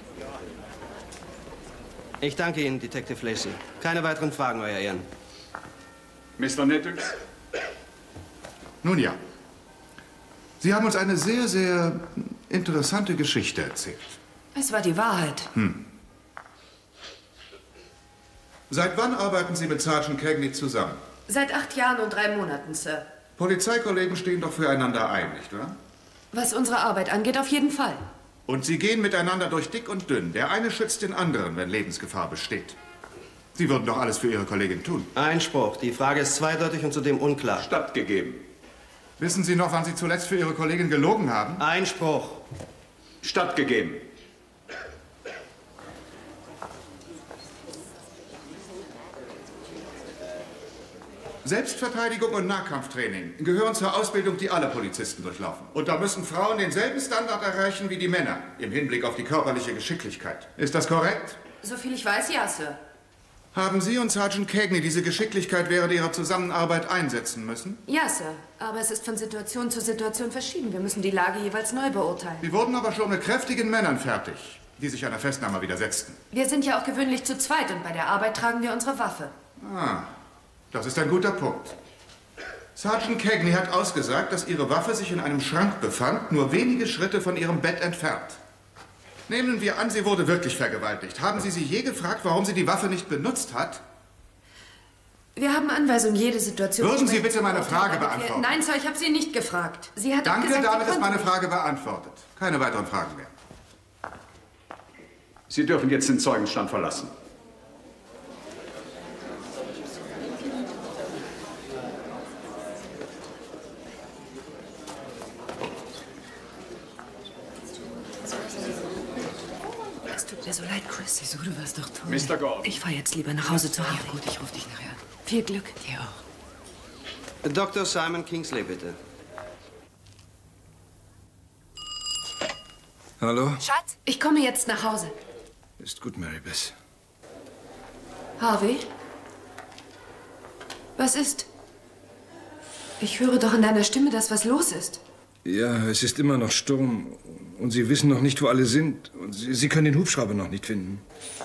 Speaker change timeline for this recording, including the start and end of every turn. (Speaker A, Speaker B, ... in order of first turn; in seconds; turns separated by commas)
Speaker A: 2.2-5.0, Speaker B: 6.4-7.2, Speaker C: 8.8-9.2, Speaker C: 10.6-14.2, Speaker D: 14.6-15.5, Speaker C: 15.6-15.8, Speaker C: 18.7-21.0, Speaker D: 21.3-23.1, Speaker C: 23.4-25.8, Speaker D: 26.3-28.1, Speaker C: 28.5-32.8, Speaker C: 33.5-35.1, Speaker A: 35.1-37.7, Speaker B: 37.6-38.4, Speaker C: 39.2-41.6, Speaker A: 41.6-42.4, Speaker B: 43.2-44.0, Speaker C: 51.4-61.4, Speaker D: 61.6-62.8, Speaker C: 63.5-67.8, Speaker D: 67.9-72.4, Speaker C: 72.4-76.2, Speaker D: 76.3-79.3, Speaker C: 79.6-80.1, Speaker C: 80.7-81.8, Speaker C: 82.8-88.4, Speaker C: 89.3-93.8, Speaker D: 95.4-101.3, Speaker C: 96.8-98.6, Speaker C: 100.2-103.3, Speaker B: 105.5-107.1, Speaker D: 120.1-121.2, Speaker E: 121.2-122.4, Speaker B: 122.1-122.7, Speaker D: 122.6-124.2, Speaker E: 123.8-125.0, Speaker D: 125.3-125.8, Speaker E: 125.8-126.2, Speaker A: 127.4-129.0, Speaker F: 133.2-133.6, Speaker D: 133.6-135.2, Speaker F: 135.8-136.8, Speaker D: 138.4-138.9, Speaker D: 141.0-141.5, Speaker D: 143.0-145.0, Speaker F: 145.4-151.0